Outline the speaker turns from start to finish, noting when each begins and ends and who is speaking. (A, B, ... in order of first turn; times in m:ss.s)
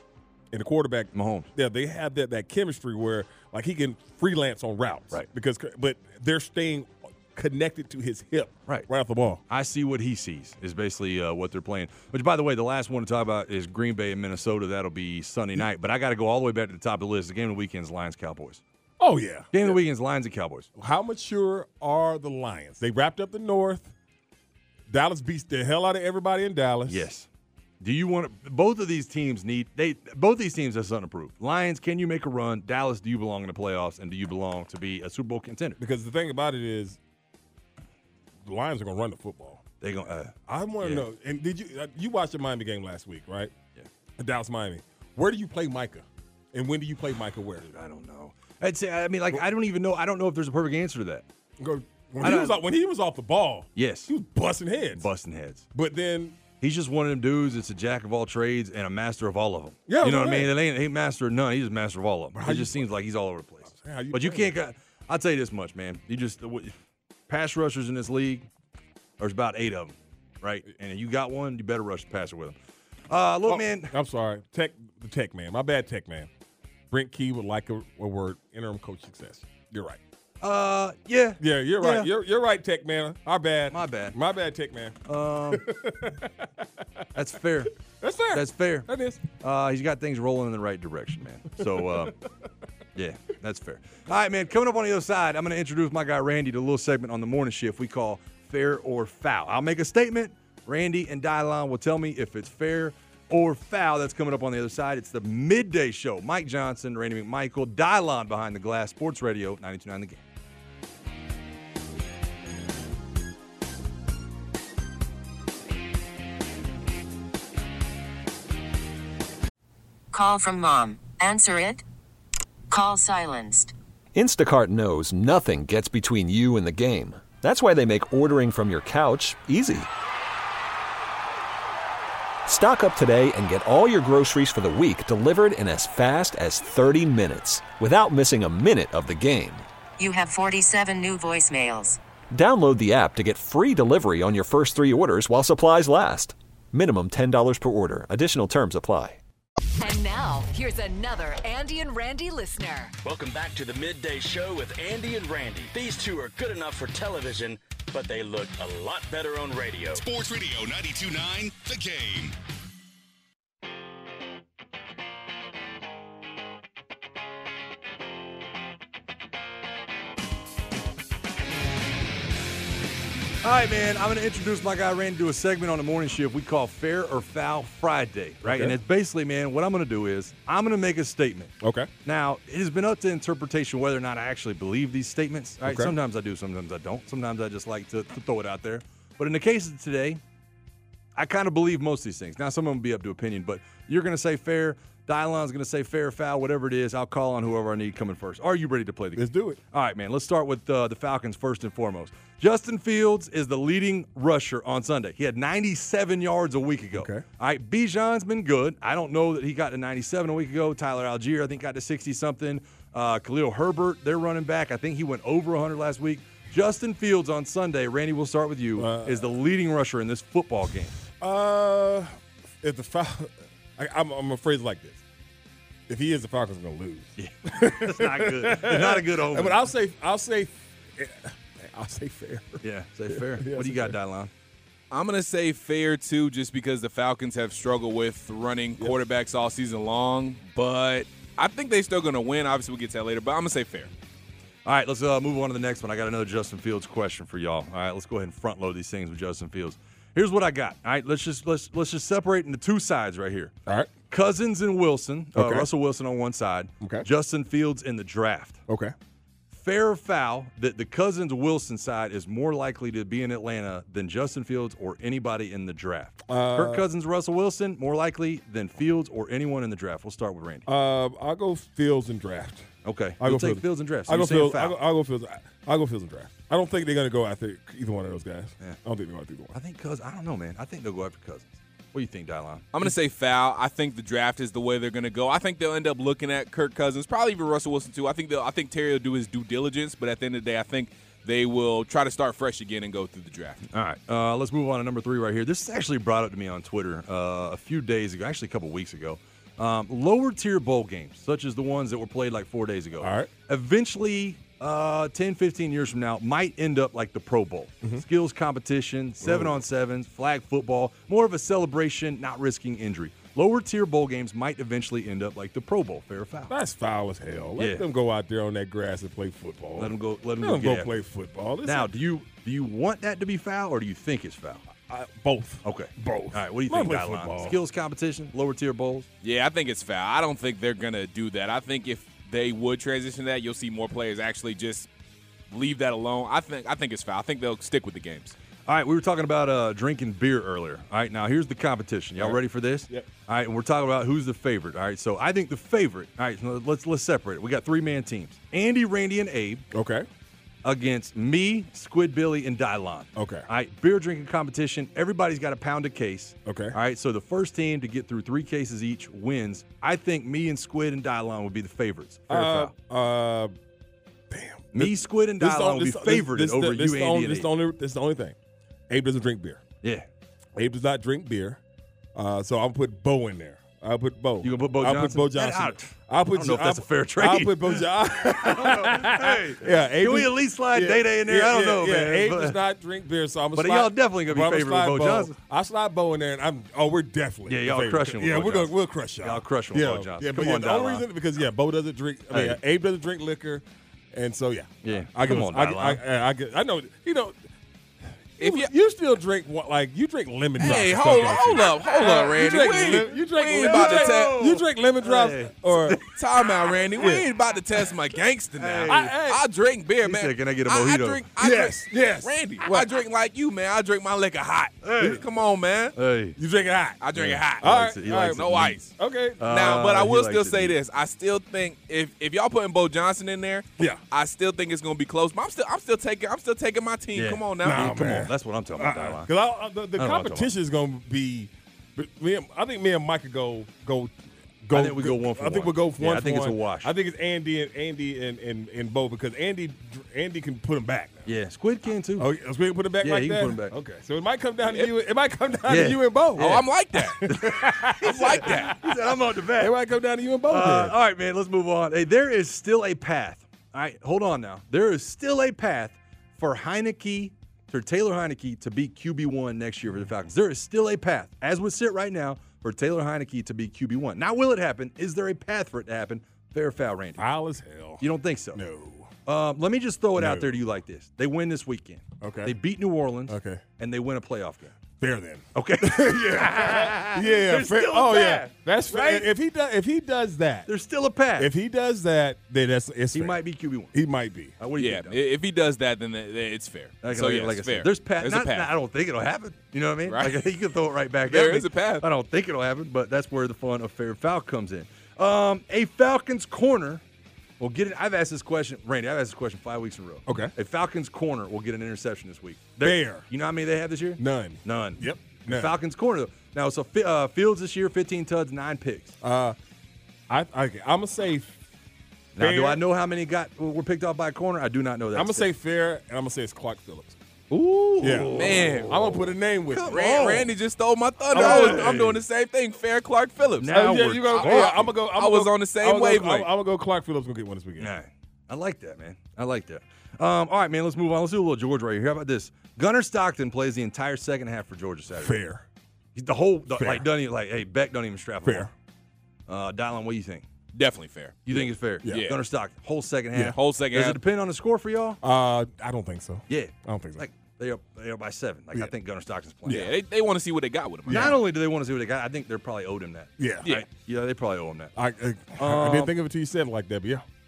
0:00.5-0:09.4 A
0:01.1-0:01.5 B
0:09.5-0:18.6 B
0:19.0-0:19.8 A
0:19.5-0:20.7 B
0:20.8-0:23.9 A
0:24.9-0:27.1 A
0:26.9-0:27.3 B
0:27.8-0:35.8 B
0:35.8-0:37.0 A
0:38.4-0:39.6 A
0:39.8-0:41.1 B
0:40.5-0:43.5 A
0:44.2-0:47.7 A
0:47.7-0:51.2 B
0:51.6-0:55.1 A
0:52.2-0:52.6 B
0:53.8-0:54.1 B
0:55.0-0:55.6 B
0:55.7-0:56.4 A
0:56.6-1:06.8 B
0:59.9-1:00.5 A
1:02.3-1:02.9 A
1:03.7-1:04.6 A
1:07.3-1:08.5 B
1:09.2-1:12.6 B
1:13.1-1:13.9 B
1:13.5-1:16.3 A
1:16.9-1:20.0 A
1:20.4-1:22.1 B
1:21.4-1:27.0 A
1:23.7-1:24.2 B
1:25.0-1:25.7 B
1:27.1-1:27.8 B
1:28.0-1:29.2 A
1:28.3-1:32.2 B
1:31.6-1:32.1 A
1:32.9-1:50.2 B
2:00.1-2:01.8 C
2:02.7-2:03.7 C
2:04.1-2:09.9 D
2:12.4-2:19.6 D
2:20.0-2:22.0 C
2:22.3-2:29.2 D
2:29.8-2:32.9 E
2:33.0-2:40.1 F
2:39.9-2:42.3 G
2:53.4-3:01.5 B
2:58.4-2:58.8 A
3:01.6-3:01.9 A
3:02.0-3:10.2 B
3:05.6-3:05.9 A
3:11.2-3:41.0 B
3:19.2-3:19.6 A
3:26.9-3:27.2 A
3:38.8-3:39.3 A
3:41.2-3:45.0 A
3:45.9-3:54.0 A
3:47.2-3:49.6 B
3:52.6-3:54.3 B
3:54.9-4:03.9 H
4:04.6-4:13.5 B
4:13.6-4:13.9 A
4:14.1-4:18.6 B
4:15.3-4:15.7 A
4:16.8-4:17.0 A
4:18.7-4:18.9 A
4:19.5-4:30.7 B
4:26.3-4:26.9 A
4:30.6-4:39.5 A
4:32.8-4:34.8 B
4:39.5-4:42.8 B
4:42.7-4:53.6 H
4:53.7-5:16.5 B
5:03.0-5:03.3 A
5:09.2-5:09.6 A
5:16.5-5:21.9 A
5:17.6-5:17.9 B
5:19.8-5:20.9 B
5:21.6-5:24.6 B
5:24.9-5:27.6 A
5:25.6-5:29.1 B
5:29.2-5:34.9 H
5:35.5-5:38.3 H
5:38.6-5:49.6 B
5:42.2-5:43.1 A
5:49.7-5:50.0 A
5:50.6-6:02.7 B
5:53.2-5:53.5 A
5:56.5-5:56.8 A
6:02.3-6:03.5 A
6:04.3-6:08.4 A
6:04.7-6:07.5 B
6:08.9-6:09.6 A
6:09.8-6:10.1 B
6:10.5-6:11.6 A
6:12.1-6:37.4 A
6:14.4-6:22.6 B
6:23.5-6:25.3 B
6:27.5-6:31.0 B
6:32.3-6:32.6 B
6:34.8-6:36.0 B
6:38.4-6:46.0 A
6:38.4-6:38.7 H
6:40.6-6:44.4 H
6:43.5-6:46.2 B
6:46.0-6:56.0 H
6:47.0-6:47.3 A
6:48.6-6:49.1 B
6:48.9-6:49.4 A
6:50.0-6:51.2 B
6:51.4-6:52.9 A
6:54.8-6:55.2 B
6:56.0-6:56.4 B
6:56.4-6:57.0 A
6:57.0-6:58.9 H
6:57.1-6:58.8 B
6:57.6-7:00.0 A
6:59.4-7:00.8 B
6:59.5-7:08.1 H
7:07.1-7:09.3 B
7:07.6-7:21.3 A
7:10.0-7:10.5 B
7:14.7-7:16.9 B
7:21.2-7:22.3 B
7:22.2-7:29.0 A
7:23.0-7:23.8 B
7:25.7-7:26.6 B
7:26.4-7:27.3 H
7:27.2-7:29.8 B
7:28.0-7:28.8 H
7:29.6-7:31.0 A
7:30.5-7:47.2 B
7:47.2-7:49.1 A
7:48.0-7:48.6 B
7:49.2-7:54.8 B
7:50.2-7:50.6 A
7:52.2-7:52.5 A
7:53.3-7:53.6 A
7:55.0-8:00.7 A
7:55.5-7:59.3 B
8:00.7-8:01.5 B
8:01.4-8:03.4 A
8:03.1-8:03.9 B
8:03.9-8:04.5 A
8:04.6-8:05.2 B
8:04.8-8:08.7 H
8:07.0-8:17.0 B
8:10.0-8:10.4 H
8:11.3-8:12.0 H
8:17.6-8:29.2 B
8:20.3-8:20.5 A
8:22.8-8:23.2 A
8:24.2-8:25.7 A
8:29.2-8:29.6 A
8:30.3-8:31.6 A
8:32.4-8:35.5 B
8:32.4-8:32.8 A
8:35.1-8:37.2 A
8:37.5-8:39.1 B
8:38.0-8:39.1 H
8:38.0-8:40.5 A
8:39.7-8:40.5 B
8:39.9-8:46.5 H
8:41.3-8:42.0 A
8:41.3-8:42.2 B
8:43.6-8:45.0 B
8:43.7-8:47.9 A
8:47.8-8:55.4 B
8:55.2-8:55.6 A
8:56.1-8:58.7 B
8:56.8-8:57.1 A
8:58.4-8:58.7 A
8:59.5-9:00.5 B
9:00.7-9:01.5 H
9:01.5-9:05.2 B
9:02.0-9:02.4 H
9:03.5-9:04.2 H
9:05.2-9:07.2 A
9:06.5-9:09.9 B
9:09.6-9:09.9 A
9:09.7-9:11.3 H
9:11.1-9:11.4 A
9:11.1-9:15.0 B
9:13.4-9:13.8 A
9:15.0-9:17.2 A
9:15.6-9:16.1 B